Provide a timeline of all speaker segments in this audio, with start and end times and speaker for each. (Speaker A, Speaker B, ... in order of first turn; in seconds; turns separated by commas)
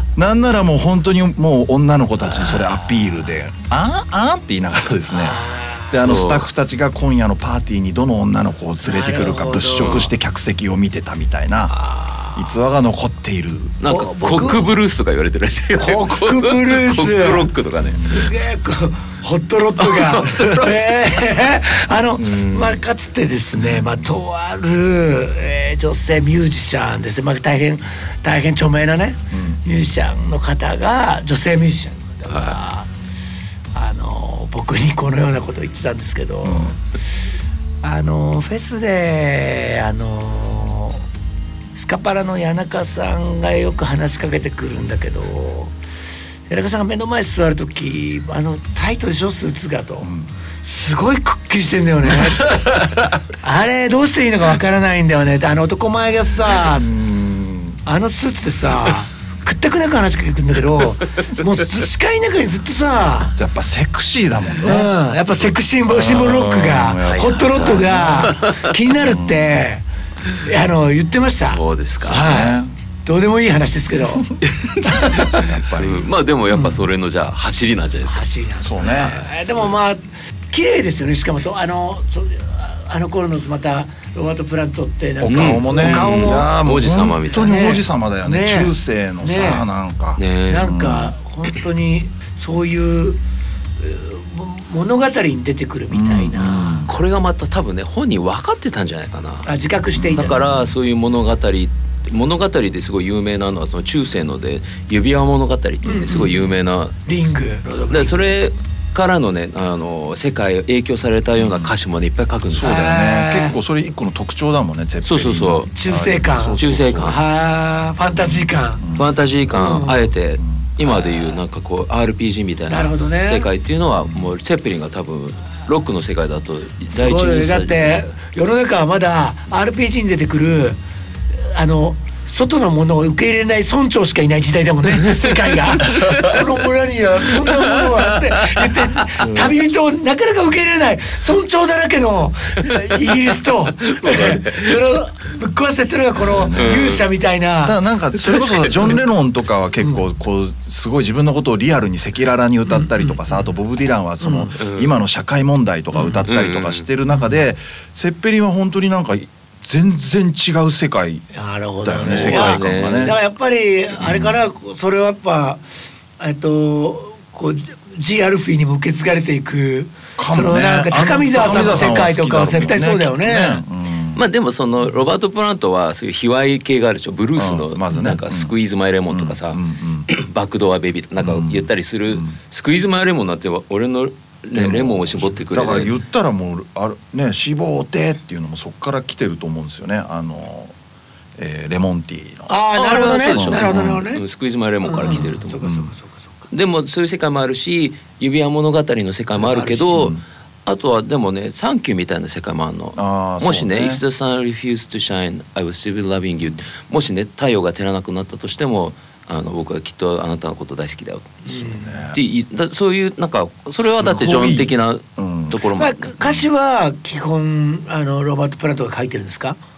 Speaker A: 0.1-11.8, Speaker B: 5.1-6.0, Speaker C: 5.9-6.5, Speaker B: 8.8-10.1, Speaker C: 9.8-10.1, Speaker B: 11.7-12.5, Speaker A: 12.3-13.8, Speaker C: 13.8-18.1, Speaker B: 13.8-14.7, Speaker B: 15.8-32.9, Speaker A: 17.9-18.2, Speaker C: 19.8-20.9, Speaker C: 22.2-22.8, Speaker A: 29.3-29.6, Speaker C: 32.3-32.6, Speaker B: 33.7-36.8, Speaker A: 36.4-36.8, Speaker B: 37.8-41.0, Speaker B: 41.7-45.7, Speaker B: 46.5-50.1, Speaker A: 50.0-50.3, Speaker B: 50.6-56.9, Speaker A: 52.3-53.1, Speaker A: 56.7-57.8, Speaker B: 57.9-63.3, Speaker A: 63.4-64.9, Speaker B: 64.6-69.8, Speaker A: 65.9-68.3, Speaker C: 67.0-68.7, Speaker A: 69.0-69.6, Speaker B: 70.3-75.4, Speaker C: 71.4-72.3, Speaker A: 72.1-72.7, Speaker C: 74.5-78.3, Speaker A: 74.9-76.1, Speaker B: 76.5-76.8, Speaker B: 78.0-86.5, Speaker A: 78.6-79.2, Speaker C: 78.8-79.7, Speaker A: 85.2-91.1, Speaker C: 85.3-87.6, Speaker B: 87.3-89.6, Speaker C: 90.2-90.8, Speaker B: 90.5-93.2, Speaker B: 93.8-96.9, Speaker A: 95.9-96.9, Speaker C: 96.9-99.5, Speaker B: 99.4-100.4, Speaker A: 99.9-100.7, Speaker C: 100.2-107.0, Speaker B: 105.8-106.5, Speaker B: 107.0-108.2, Speaker C: 107.9-112.8, Speaker A: 111.4-111.7, Speaker A: 112.5-117.2, Speaker B: 112.6-113.5, Speaker C: 115.0-115.7, Speaker B: 115.7-118.8, Speaker C: 116.6-117.2, Speaker A: 118.2-119.1, Speaker C: 119.0-128.1, Speaker B: 119.5-120.1, Speaker B: 122.7-123.5, Speaker B: 126.9-130.8, Speaker B: 131.3-147.8, Speaker C: 135.8-136.4, Speaker C: 137.4-138.9, Speaker A: 139.2-139.5, Speaker C: 143.9-144.8, Speaker A: 146.2-147.0, Speaker C: 146.3-147.0, Speaker A: 147.6-161.2, Speaker C: 148.2-148.9, Speaker B: 152.7-153.4, Speaker B: 154.2-154.5, Speaker C: 154.6-154.9, Speaker C: 156.1-156.8, Speaker B: 157.1-157.4, Speaker B: 161.3-165.6, Speaker A: 161.8-163.2, Speaker C: 162.0-163.2, Speaker A: 164.0-164.4, Speaker B: 166.2-173.6, Speaker A: 170.2-174.2, Speaker C: 174.1-185.9, Speaker A: 177.3-178.5, Speaker A: 179.1-180.1, Speaker A: 181.2-182.3, Speaker A: 184.5-190.7, Speaker A: 191.4-192.6, Speaker B: 192.5-194.2, Speaker C: 192.7-195.7, Speaker A: 193.3-194.0, Speaker B: 194.8-196.5, Speaker A: 195.1-195.9, Speaker C: 196.5-216.4, Speaker B: 199.3-200.0, Speaker A: 199.9-200.2, Speaker A: 202.9-204.0, Speaker B: 211.5-211.9, Speaker A: 211.8-212.2, Speaker A: 213.8-215.6, Speaker B: 215.8-219.6